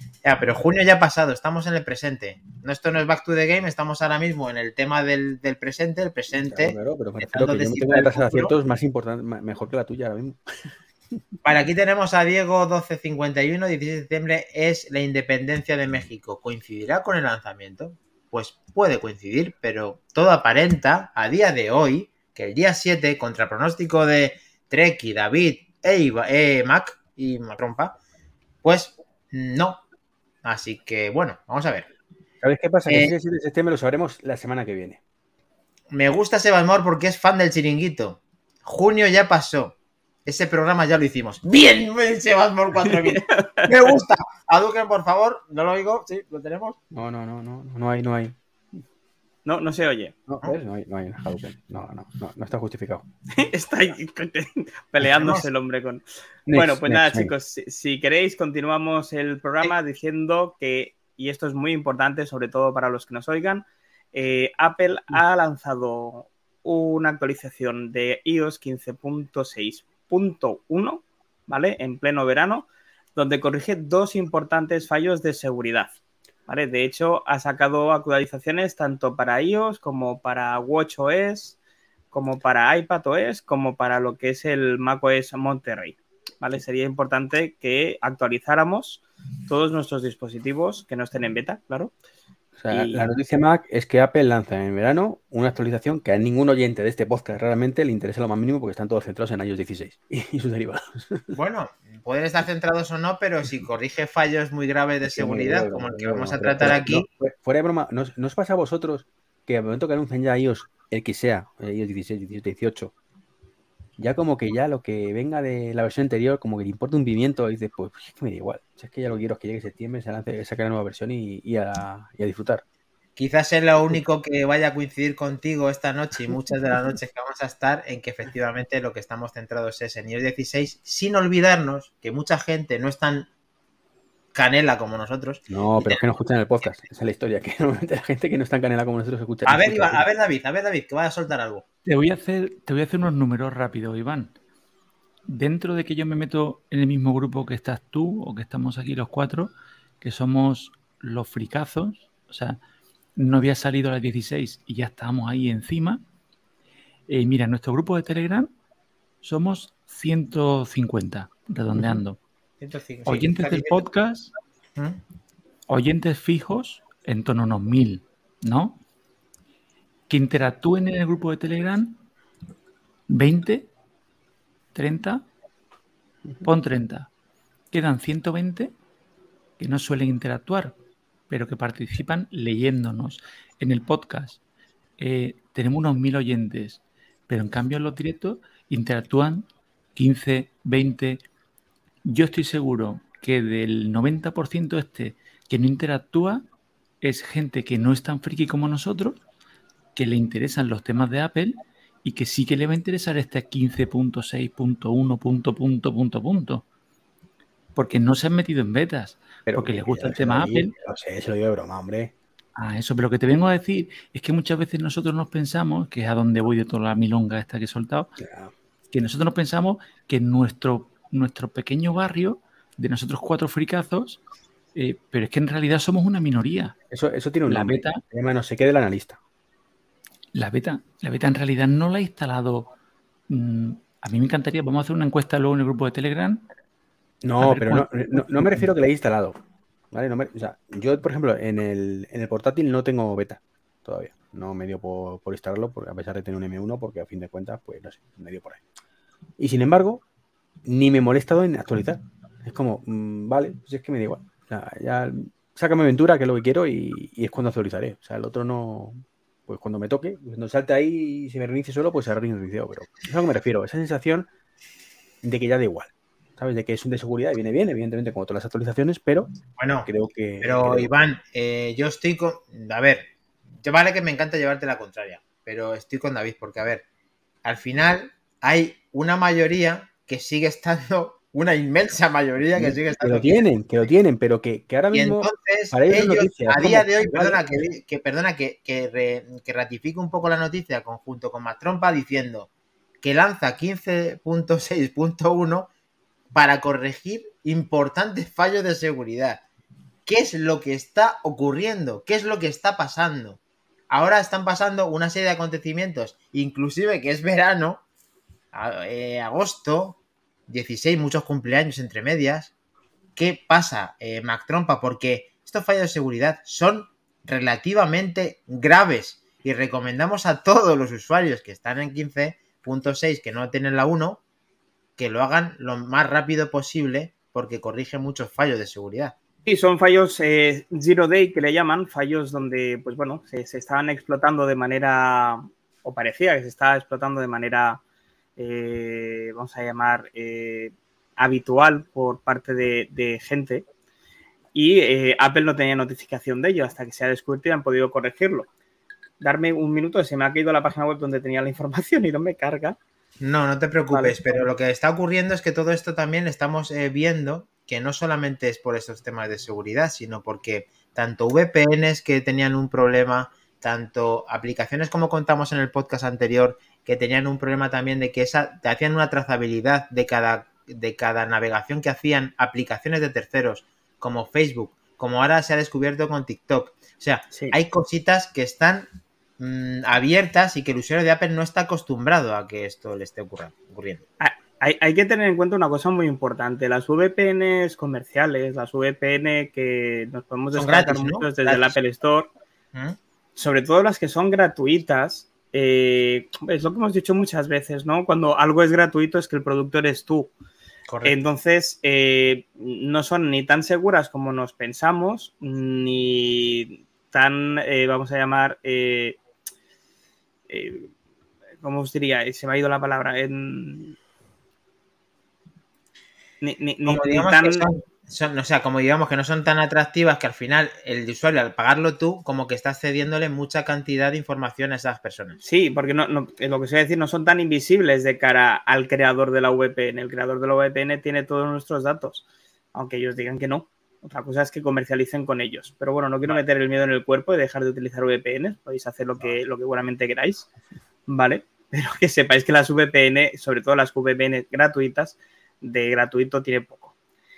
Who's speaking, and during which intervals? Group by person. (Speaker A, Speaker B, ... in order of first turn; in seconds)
Speaker A: 0.2-8.6, 11.4-27.9, 28.6-29.8, 30.4-31.9, 32.9-33.1, 35.9-39.7, 40.2-46.8, 55.1-55.5, 101.3-107.0, 123.2-133.3, 134.3-136.0, 139.4-141.6, 162.6-163.8, 269.6-269.9, 270.4-273.1, 273.6-276.8, 277.4-283.4, 284.9-292.5, 293.0-295.7, 296.3-299.4, 300.1-303.4, 303.9-307.8, 308.5-312.5, 313.1-324.2, 325.0-329.1, 353.2-378.9, 379.4-384.0, 390.5-391.8, 400.9-401.1, 416.9-425.4
Speaker B: 6.3-10.7, 32.4-35.0, 46.9-48.3, 50.3-53.0, 56.5-57.3, 92.6-101.3, 105.0-112.9, 114.0-122.6, 135.5-140.0, 209.5-212.1, 218.2-218.5, 226.9-229.2, 237.2-239.3, 239.9-248.6, 249.4-250.0, 250.7-264.3, 265.2-269.3, 269.8-270.9, 282.6-287.4
Speaker C: 43.0-43.7, 49.5-50.1, 53.4-75.9, 76.5-81.6, 82.1-91.9, 92.7-93.1, 329.4-337.8, 338.4-343.6, 344.5-348.5, 349.2-352.8, 353.9-354.2, 384.2-392.3, 393.4-400.3, 401.0-409.2, 410.5-410.9, 411.6-413.9, 416.4-417.7, 425.4-440.5, 441.1-446.9
Speaker D: 141.8-144.3, 145.3-152.6, 153.2-156.0, 157.1-158.5, 159.2-162.2, 163.1-164.3, 165.7-168.8, 170.1-172.0, 173.1-173.7, 174.7-175.2, 176.4-177.1, 177.7-178.7, 179.6-180.7, 181.3-184.4, 185.0-191.2, 192.0-196.4, 197.0-199.2, 199.9-206.6, 207.8-210.7, 212.6-218.1, 218.9-224.2, 224.7-226.7, 227.5-228.0, 230.3-232.7, 233.3-236.4, 237.4-238.6